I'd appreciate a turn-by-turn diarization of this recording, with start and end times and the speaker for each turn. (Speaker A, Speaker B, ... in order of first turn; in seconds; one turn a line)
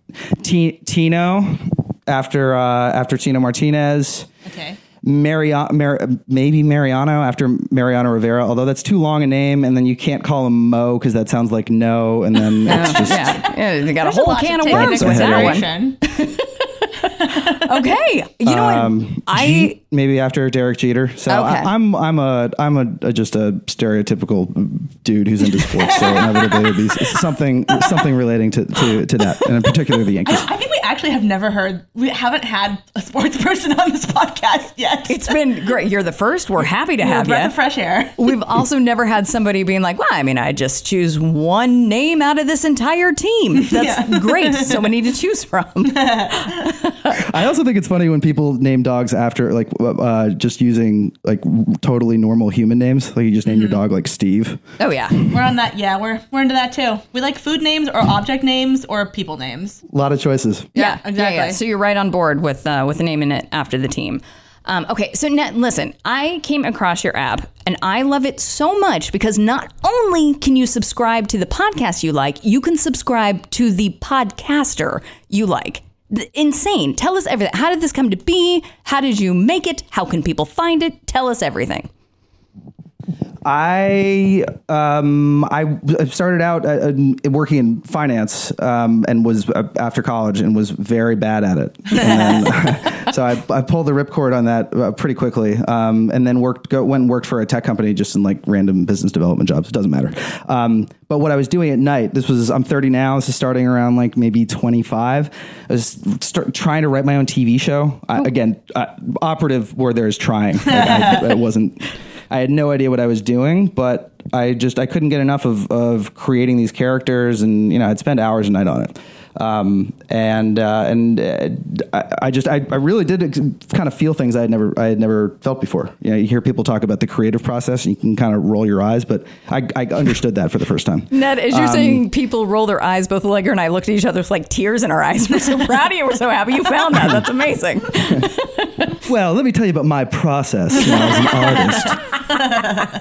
Speaker A: 0.3-4.3
Speaker B: 4.5-4.8
Speaker A: 5.0-13.4
Speaker C: 12.7-19.8
Speaker B: 12.7-16.0
Speaker A: 14.7-15.7
Speaker A: 18.4-30.5
Speaker C: 21.3-21.7
Speaker B: 25.9-26.5
Speaker B: 30.2-35.4
Speaker C: 35.1-37.5
Speaker B: 37.0-38.4
Speaker C: 38.2-47.2
Speaker B: 43.6-44.9
Speaker B: 45.9-46.6
Speaker A: 47.1-54.6
Speaker C: 54.8-55.2
Speaker B: 55.3-59.8
Speaker A: 59.9-60.7
Speaker B: 60.7-61.6
Speaker C: 60.8-81.9
Speaker A: 83.4-132.1
Speaker C: 131.1-138.8
Speaker A: 139.0-142.0